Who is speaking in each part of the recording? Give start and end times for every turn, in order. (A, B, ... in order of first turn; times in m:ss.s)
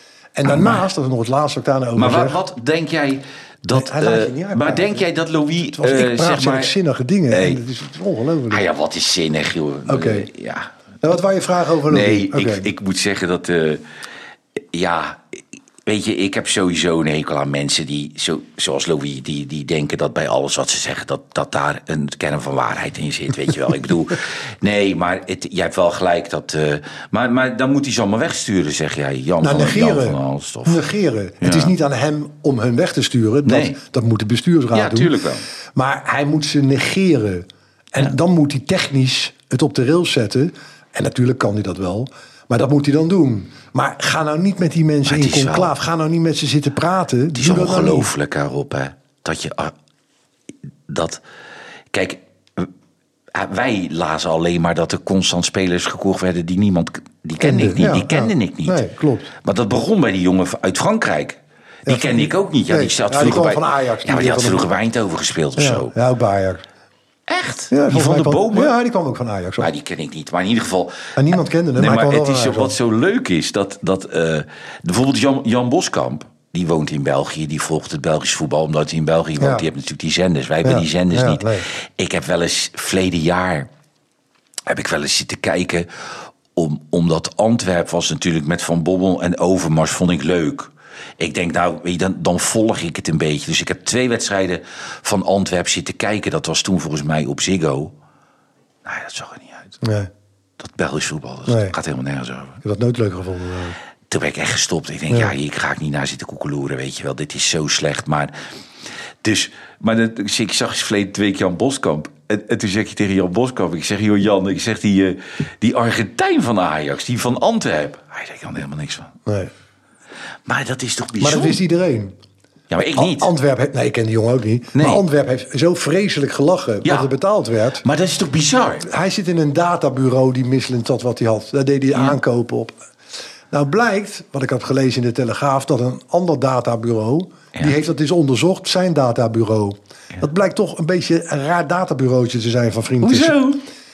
0:00.4-0:02.4 A
0:00.5-0:00.8 B
0:02.0-0:06.7 B
0:03.7-0:05.0 A
0:05.8-0:08.6 A
0:07.3-0:07.6 B
0:08.5-0:10.7 B
0:09.9-0:10.3 A
0:11.0-0:12.7 A
0:11.9-0:13.8 B
0:14.7-0:30.8 B
0:29.4-0:35.1 A
0:31.4-0:31.7 B
0:33.4-0:33.8 B
0:34.7-0:35.4 B
0:35.7-0:48.1 A
0:45.0-0:45.7 B
0:47.3-0:49.7 B
0:50.9-0:51.2 B
0:51.9-0:52.7 B
0:53.3-0:58.8 B
0:57.4-0:59.3 A
0:59.4-1:05.9 B
1:01.8-1:04.7 A
1:05.6-1:06.6 A
1:07.3-1:08.7 B
1:07.7-1:09.7 A
1:09.6-1:11.1 B
1:11.2-1:12.8 A
1:11.7-1:23.7 B
1:19.4-1:19.6 A
1:20.6-1:21.6 A
1:24.7-1:25.9 B
1:26.5-1:37.9 B
1:38.8-1:39.8 B
1:39.8-1:40.1 A
1:40.6-1:42.6 B
1:41.5-1:41.7 A
1:42.6-1:43.8 A
1:44.1-1:48.3 B
1:49.2-1:59.1 B
1:59.2-1:59.5 A
2:00.4-2:01.6 B
2:01.2-2:02.1 A
2:02.7-2:03.3 B
2:02.9-2:07.8 A
2:04.7-2:05.0 B
2:06.8-2:07.1 B
2:07.8-2:08.9 B
2:08.8-2:12.7 A
2:13.5-2:23.4 A
2:23.0-2:23.6 B